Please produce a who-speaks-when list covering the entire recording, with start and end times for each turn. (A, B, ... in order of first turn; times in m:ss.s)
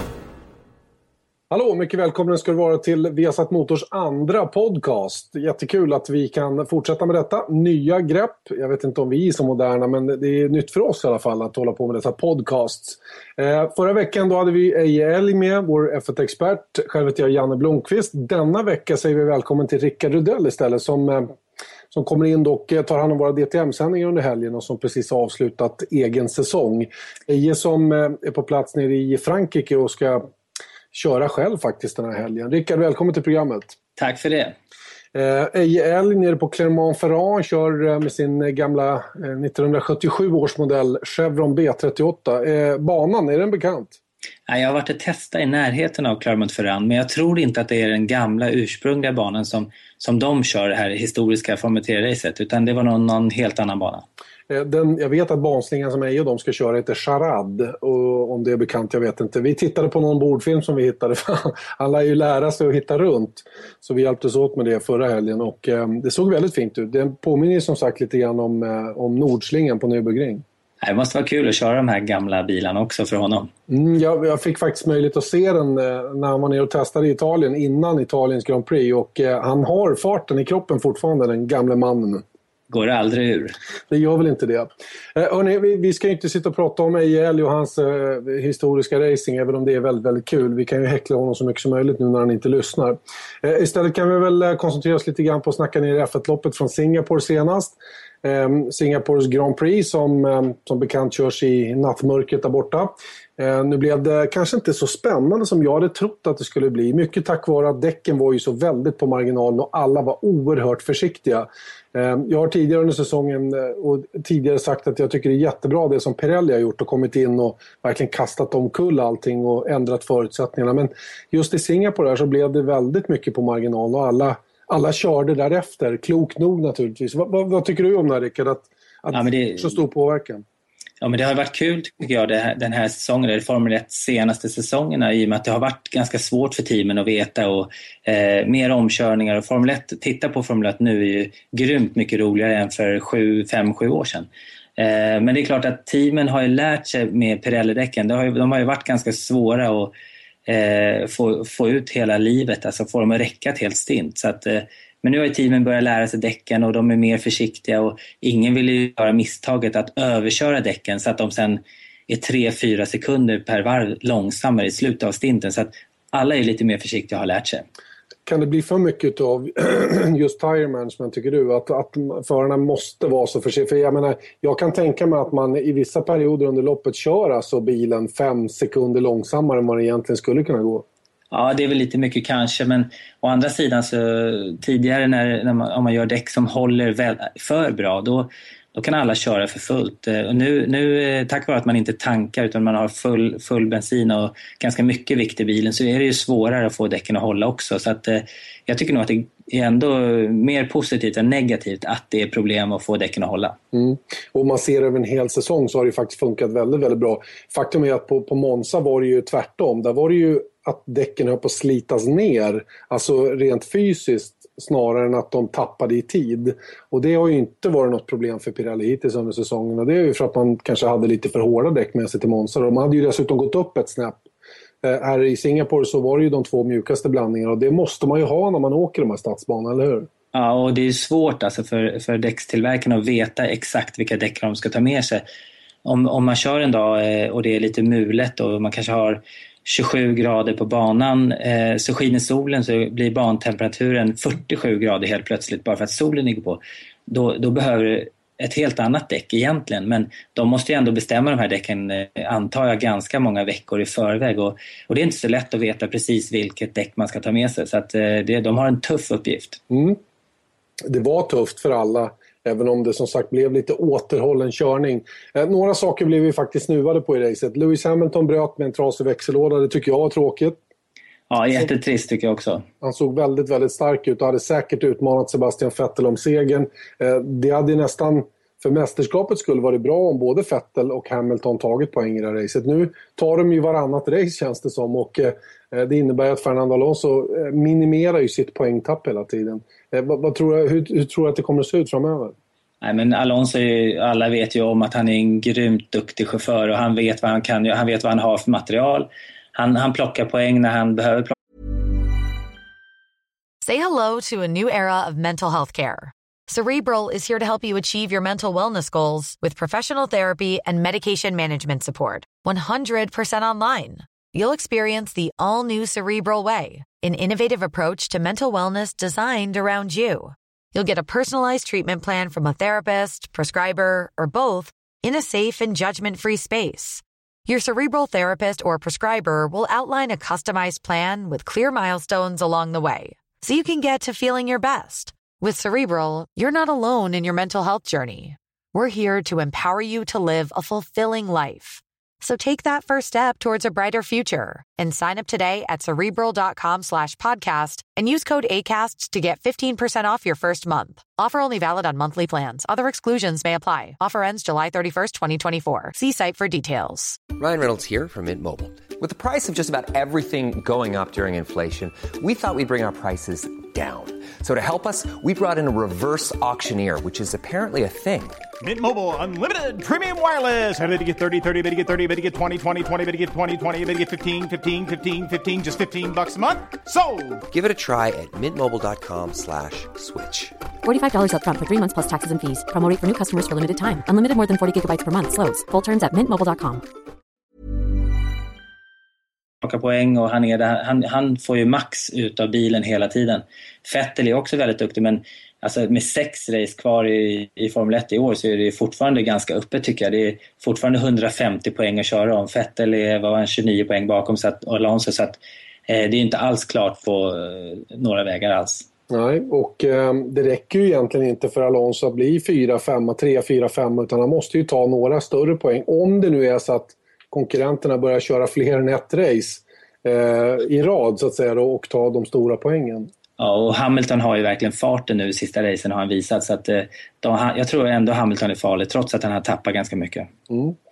0:01.5-0:21.4 A
0:21.9-0:30.3 A
0:30.9-0:33.8 A
0:34.0-0:34.6 B
0:35.1-0:44.0 A
0:44.5-0:54.0 B
0:54.5-1:10.4 A
1:10.8-1:13.5 B
1:13.7-1:22.2 A
1:22.7-1:23.6 B
1:23.9-2:10.4 A
2:09.1-2:09.8 B
2:11.0-2:29.9 B
2:30.5-2:47.6 B
2:48.2-3:00.9 A
3:01.3-3:23.6 B
3:23.7-3:44.2 A
3:44.8-3:50.1 A
3:50.3-3:55.2 B
3:55.8-4:19.6 B
4:19.7-4:20.0 A
4:20.9-4:30.6 A
4:31.3-4:32.6 B
4:32.8-4:52.4 A
4:52.8-5:01.3 B
5:03.6-5:57.2 C
5:57.4-6:08.4 D
6:08.6-6:17.4 E
6:17.5-6:20.5 D
6:20.8-6:26.8 F
6:29.6-6:48.9 B
6:49.1-7:03.1 A
7:03.4-7:10.3 B
7:10.5-7:10.8 A